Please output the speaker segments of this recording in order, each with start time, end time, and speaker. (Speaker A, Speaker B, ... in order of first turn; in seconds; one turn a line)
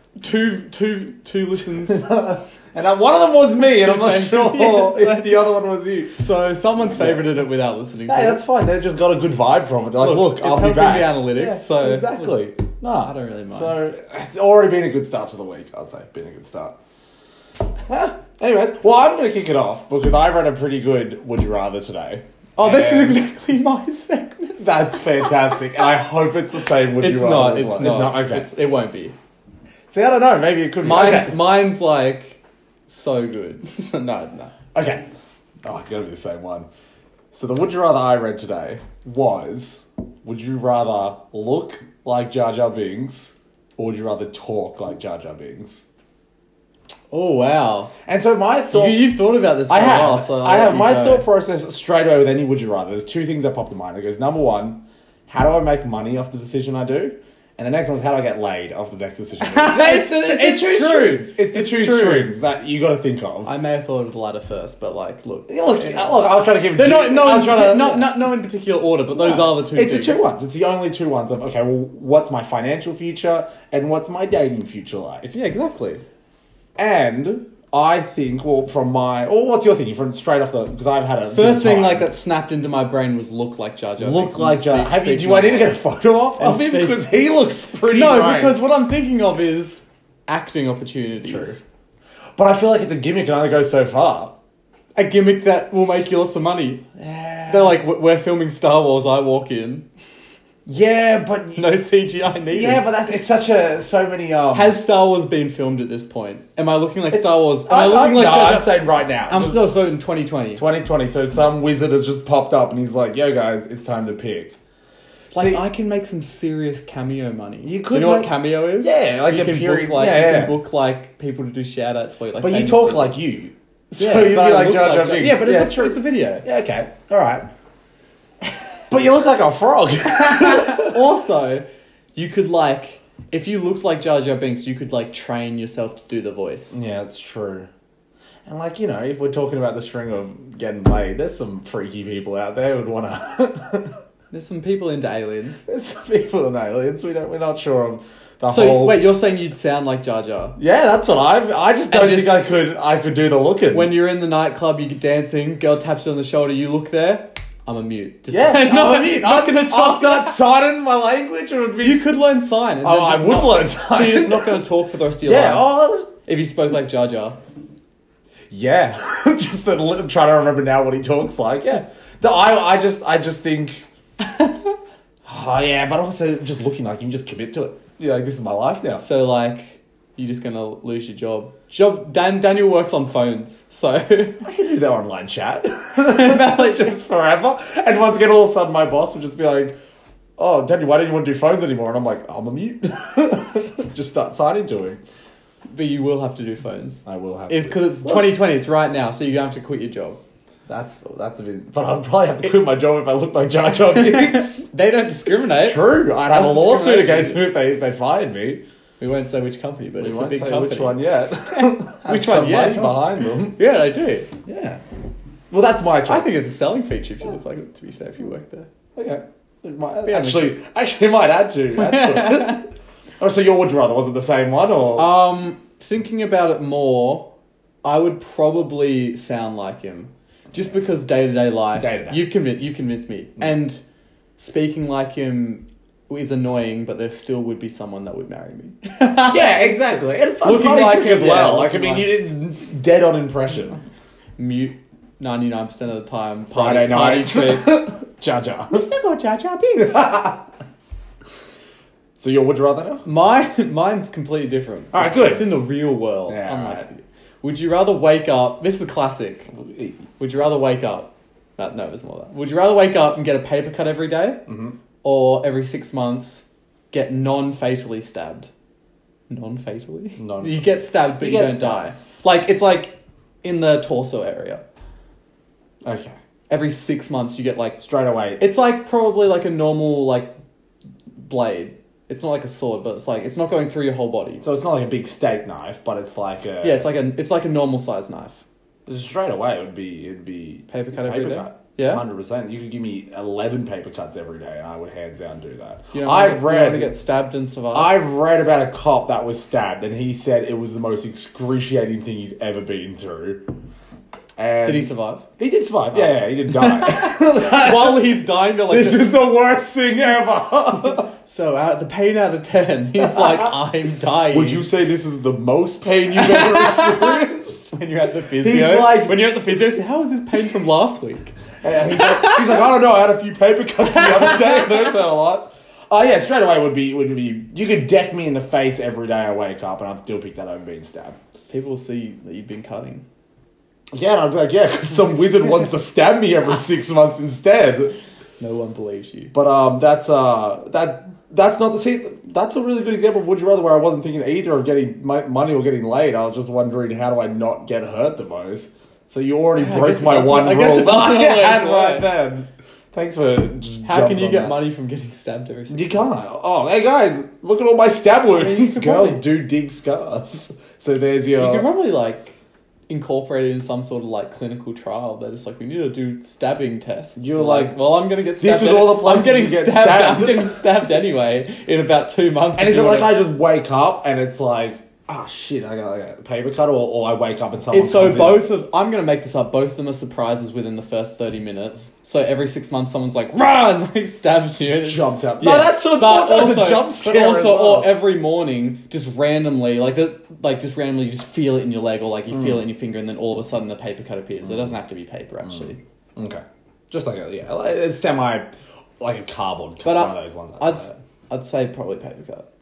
Speaker A: 0.2-2.1
Speaker B: 1.8-6.2
Speaker A: 3.6-5.4
Speaker A: 6.2-8.4
Speaker B: 6.9-7.2
Speaker B: 8.1-16.8
Speaker A: 10.0-12.4
Speaker A: 13.0-13.8
Speaker B: 17.9-23.2
Speaker A: 22.6-25.6
Speaker B: 24.6-28.5
Speaker A: 27.0-29.1
Speaker B: 29.9-31.5
Speaker A: 30.8-34.5
Speaker B: 34.8-35.0
Speaker B: 35.6-36.7
Speaker B: 37.3-45.9
Speaker A: 47.1-47.9
Speaker B: 48.1-63.5
Speaker A: 48.7-51.3
Speaker A: 59.4-62.3
Speaker A: 63.5-70.2
Speaker B: 65.5-68.3
Speaker B: 69.1-75.4
Speaker A: 75.3-76.0
Speaker B: 76.8-82.1
Speaker A: 81.3-85.8
Speaker B: 84.0-88.6
Speaker A: 86.4-87.1
Speaker A: 87.9-91.6
Speaker B: 91.2-91.6
Speaker B: 92.4-94.4
Speaker A: 95.0-96.8
Speaker B: 97.0-97.8
Speaker A: 97.5-99.9
Speaker B: 100.7-101.7
Speaker A: 101.6-102.8
Speaker B: 102.5-104.8
Speaker A: 104.5-110.6
Speaker B: 107.1-109.6
Speaker B: 110.6-114.5
Speaker A: 115.3-123.2
Speaker B: 115.3-115.6
Speaker B: 117.6-120.6
Speaker B: 122.4-127.5
Speaker A: 124.0-126.5
Speaker B: 128.9-131.1
Speaker A: 130.2-131.6
Speaker A: 132.2-136.8
Speaker B: 136.7-137.7
Speaker B: 138.5-143.9
Speaker A: 144.3-145.6
Speaker B: 145.7-149.1
Speaker A: 148.5-150.6
Speaker B: 150.6-153.9
Speaker A: 151.9-152.4
Speaker A: 153.7-160.4
Speaker B: 158.3-162.0
Speaker A: 161.8-165.7
Speaker B: 162.8-164.6
Speaker B: 165.2-166.1
Speaker A: 166.2-167.4
Speaker B: 168.5-173.8
Speaker A: 174.2-174.7
Speaker B: 175.2-179.0
Speaker A: 179.0-184.4
Speaker B: 184.4-189.8
Speaker A: 186.0-186.9
Speaker B: 190.4-195.0
Speaker A: 195.7-200.2
Speaker B: 197.1-198.4
Speaker B: 200.7-204.7
Speaker A: 203.9-207.4
Speaker B: 205.6-208.6
Speaker A: 209.0-214.3
Speaker B: 210.0-213.6
Speaker B: 214.5-214.8
Speaker B: 215.5-216.3
Speaker A: 216.1-218.7
Speaker B: 219.0-222.6
Speaker A: 220.0-220.6
Speaker A: 221.8-222.7
Speaker B: 223.2-225.1
Speaker A: 225.0-227.3
Speaker A: 227.8-233.8
Speaker B: 231.8-232.3
Speaker A: 234.4-239.6
Speaker B: 239.3-243.8
Speaker A: 240.4-242.1
Speaker A: 244.4-247.8
Speaker B: 246.5-248.9
Speaker A: 248.7-250.3
Speaker B: 249.8-250.4
Speaker B: 252.2-253.1
Speaker A: 253.1-259.5
Speaker B: 254.9-255.6
Speaker B: 256.3-256.9
Speaker B: 259.5-260.0
Speaker A: 260.2-264.4
Speaker B: 264.5-264.8
Speaker A: 265.0-268.5
Speaker A: 269.3-274.6
Speaker B: 270.2-271.9
Speaker B: 275.8-276.2
Speaker A: 276.5-277.8
Speaker B: 277.8-278.4
Speaker A: 278.4-280.4
Speaker A: 281.2-284.4
Speaker B: 284.4-286.9
Speaker A: 286.6-288.4
Speaker B: 288.9-296.9
Speaker A: 290.7-292.0
Speaker A: 295.9-298.0
Speaker B: 297.7-303.4
Speaker B: 304.4-311.1
Speaker A: 304.6-305.2
Speaker A: 306.0-309.1
Speaker A: 310.9-314.7
Speaker B: 314.3-317.8
Speaker A: 316.1-317.2
Speaker A: 317.7-321.4
Speaker B: 318.4-319.3
Speaker B: 321.6-331.2
Speaker A: 321.9-322.6
Speaker A: 324.0-324.7
Speaker A: 331.5-333.0
Speaker B: 333.9-337.9
Speaker A: 338.4-339.3
Speaker B: 339.3-354.6
Speaker A: 349.6-352.1
Speaker A: 353.9-355.9
Speaker B: 355.7-361.7
Speaker A: 358.3-359.2
Speaker A: 361.4-362.3
Speaker A: 362.9-373.1
Speaker B: 367.2-367.9
Speaker B: 368.4-370.7
Speaker B: 372.6-378.5
Speaker A: 377.7-395.8
Speaker B: 384.6-388.0
Speaker B: 394.4-394.7
Speaker B: 395.5-400.9
Speaker A: 399.8-402.5